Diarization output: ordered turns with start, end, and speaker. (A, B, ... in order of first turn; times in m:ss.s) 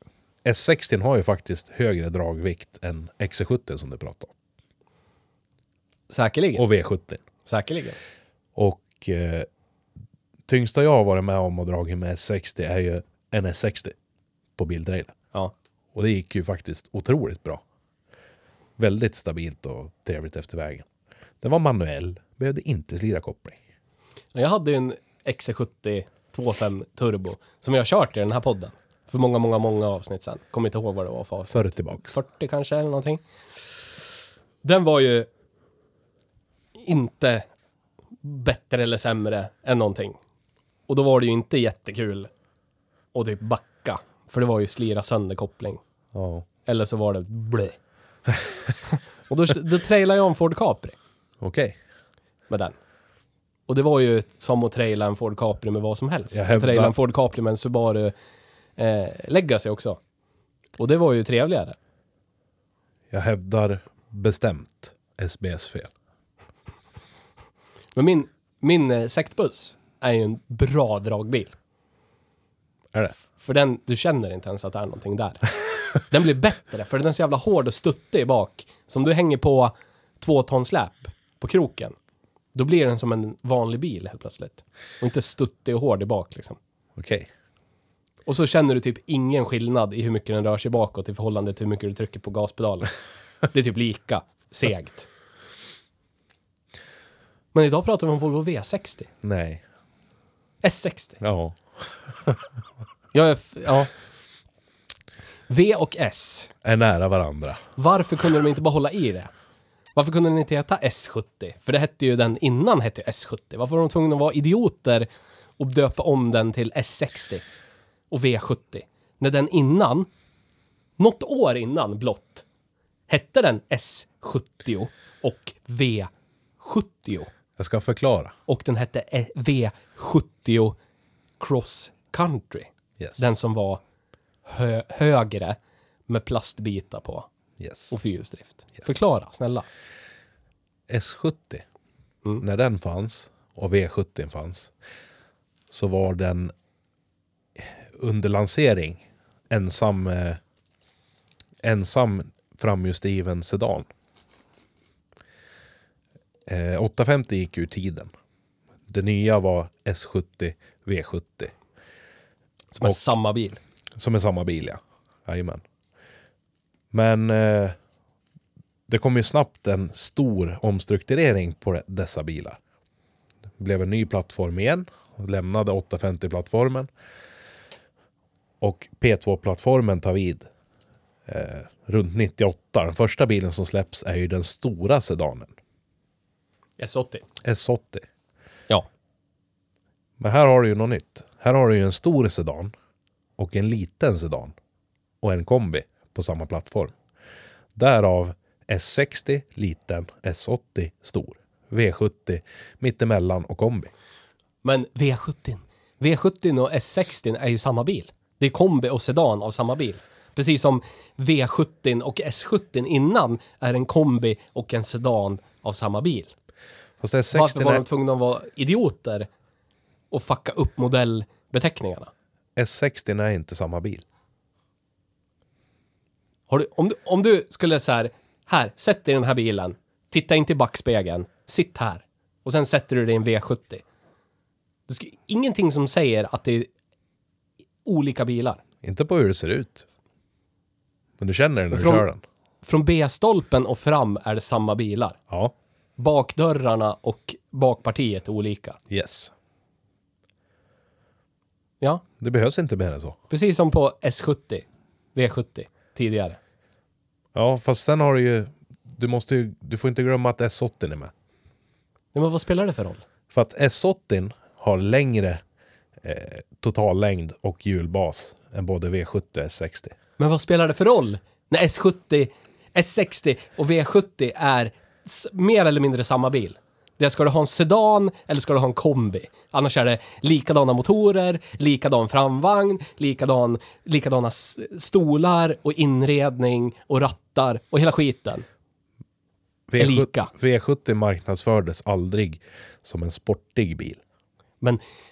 0:00.4-0:04.3 A
0:06.1-0:06.6 B
0:06.6-0:07.2 A
0:07.4-0:08.0 B
0:08.6-0:09.5 A
0:10.5-0:13.9 A
0:14.6-0:15.1 A
0:15.9-0:17.6 A
0:18.8-0:20.9 A
0:21.4-0:23.6 A
0:24.3-0:33.2 B
0:31.5-0:32.2 A
0:34.6-0:35.3 B
0:36.8-0:37.4 B
0:38.2-0:40.2 B
0:40.9-0:42.3 B
0:43.1-0:45.8 B
0:46.1-0:46.4 A
0:46.6-0:47.8 B
0:48.9-0:51.0 B
0:51.4-0:51.8 A
0:52.5-0:52.8 B
0:53.7-0:58.1 B
0:56.3-0:56.9 A
0:58.8-1:00.0 B
1:00.8-1:01.8 B
1:03.1-1:05.9 A
1:07.9-1:11.5 B
1:13.3-1:15.4 B
1:16.0-1:22.0 B
1:22.5-1:26.6 B
1:27.0-1:27.3 A
1:28.2-1:32.9 B
1:33.5-1:35.1 B
1:37.5-1:39.1 B
1:39.2-1:39.6 A
1:40.6-1:41.2 B
1:41.2-1:41.6 A
1:43.1-1:43.9 B
1:45.5-1:46.5 B
1:46.6-1:47.6 A
1:47.8-1:49.3 B
1:49.9-1:57.4 B
1:58.1-2:00.1 B
2:01.0-2:02.4 B
2:03.1-2:07.3 B
2:07.6-2:08.3 A
2:08.5-2:10.8 B
2:11.4-2:13.8 B
2:13.0-2:13.3 A
2:14.4-2:15.6 B
2:16.1-2:17.3 B
2:17.6-2:18.0 A
2:17.9-2:19.7 B
2:20.9-2:21.6 A
2:22.4-2:24.7 A
2:25.7-2:26.5 A
2:27.6-2:30.4 A
2:31.6-2:33.9 A
2:36.5-2:38.1 A
2:38.9-2:41.5 A
2:42.7-2:43.6 B
2:44.0-2:45.6 A
2:46.9-2:47.8 A
2:48.9-2:52.6 A
2:53.6-2:56.9 A
2:58.6-3:00.4 A
3:01.3-3:05.5 A
3:06.8-3:07.2 B
3:07.4-3:08.0 A
3:10.2-3:12.7 A
3:13.4-3:14.5 A
3:15.2-3:16.9 A
3:17.8-3:23.9 A
3:24.6-3:36.3 B
3:37.0-3:37.8 A
3:37.3-3:39.3 B
3:40.1-3:42.1 B
3:42.6-3:44.0 A
3:46.5-3:53.8 B
3:54.9-3:56.7 B
3:57.8-3:58.6 B
3:58.8-3:59.8 A
4:01.2-4:02.2 A
4:01.7-4:02.0 B
4:02.6-4:05.2 B
4:06.0-4:08.8 B
4:08.9-4:09.3 A
4:12.2-4:13.2 A
4:13.3-4:16.4 B
4:17.3-4:21.1 A
4:22.1-4:23.0 B
4:23.3-4:25.4 A
4:26.0-4:29.9 A
4:30.2-4:48.4 B
4:49.7-4:54.0 A
4:49.8-4:50.3 B